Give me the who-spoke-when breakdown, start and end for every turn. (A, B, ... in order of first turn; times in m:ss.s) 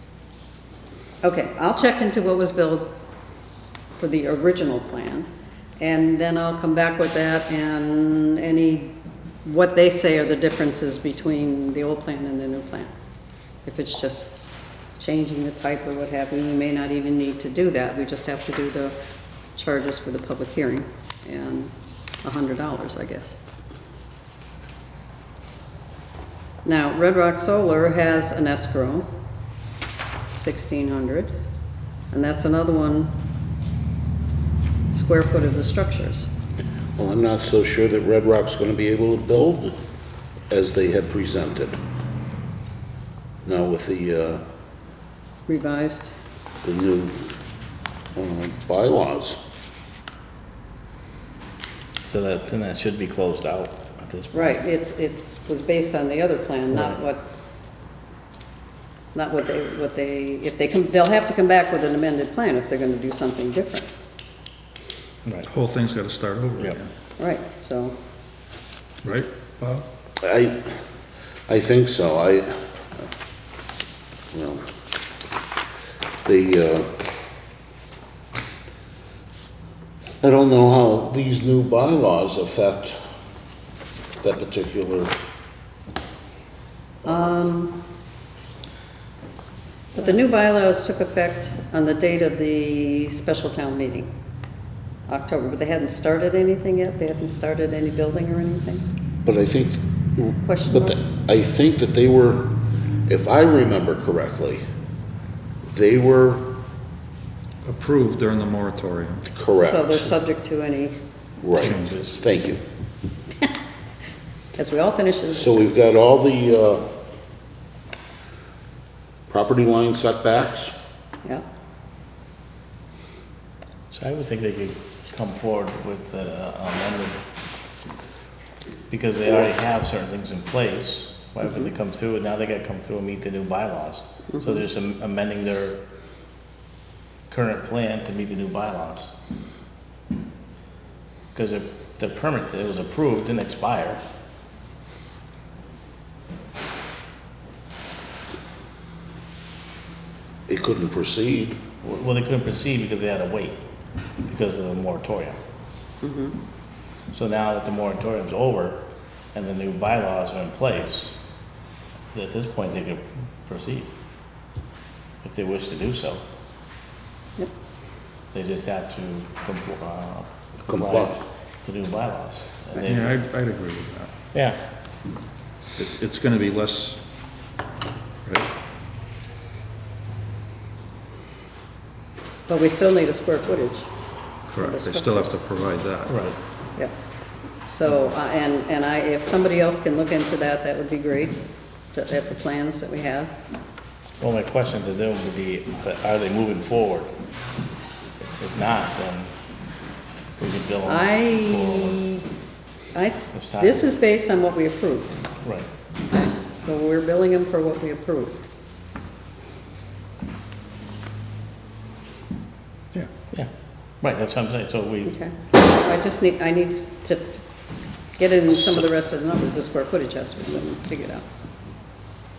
0:01.2-0:02.9 A
0:04.0-0:05.3 A
0:05.8-0:12.9 A
0:13.6-0:14.4 A
0:15.0-0:18.9 A
0:19.6-0:23.4 A
0:26.6-0:29.1 A
0:30.3-0:31.3 A
0:32.1-0:33.1 A
0:34.9-0:36.3 A
0:37.0-0:39.8 B
0:40.5-0:41.8 B
0:43.4-0:44.4 B
0:45.5-0:46.1 A
0:46.6-0:47.3 B
0:48.1-0:49.4 B
0:52.1-0:54.6 C
0:54.3-0:57.2 A
0:56.7-0:57.0 C
0:59.1-1:03.9 A
1:05.4-1:06.9 D
1:07.2-1:07.9 A
1:09.0-1:09.8 D
1:10.2-1:10.8 B
1:11.5-1:13.1 B
1:14.3-1:14.6 B
1:16.2-1:17.0 B
1:20.2-1:23.0 B
1:24.2-1:25.1 B
1:27.0-1:27.8 A
1:29.9-1:34.1 A
1:35.1-1:38.8 A
1:39.2-1:42.5 B
1:40.4-1:41.0 A
1:43.1-1:44.6 B
1:45.7-1:46.6 B
1:47.6-1:49.3 D
1:49.3-1:50.1 B
1:49.5-1:51.0 A
1:51.4-1:52.6 B
1:51.6-1:52.1 D
1:51.6-1:52.2 C
1:54.5-1:55.9 A
1:55.3-1:56.9 B
1:59.3-2:00.7 B
2:03.9-2:07.2 C
2:08.9-2:15.8 C
2:17.3-2:19.1 C
2:21.3-2:24.0 C
2:30.5-2:31.6 B
2:31.8-2:33.6 C
2:34.2-2:35.4 C
2:36.0-2:36.4 A
2:37.1-2:41.2 C
2:42.1-2:43.9 C
2:45.2-2:46.2 C
2:48.3-2:53.1 C
2:50.7-2:51.2 B
2:52.8-2:54.1 D
2:54.3-2:54.6 C
2:55.8-2:57.0 D
2:58.2-2:58.5 D
3:02.5-3:03.9 A
3:04.5-3:06.3 D
3:04.6-3:05.4 A
3:06.1-3:06.4 C
3:07.6-3:11.4 A
3:11.9-3:13.3 A
3:14.2-3:17.1 C
3:18.2-3:19.3 C
3:20.4-3:22.0 C
3:20.8-3:22.2 A
3:22.9-3:25.2 A
3:23.3-3:23.8 C
3:26.1-3:28.5 A
3:34.0-3:35.1 C
3:35.0-3:37.4 A
3:38.2-3:41.2 A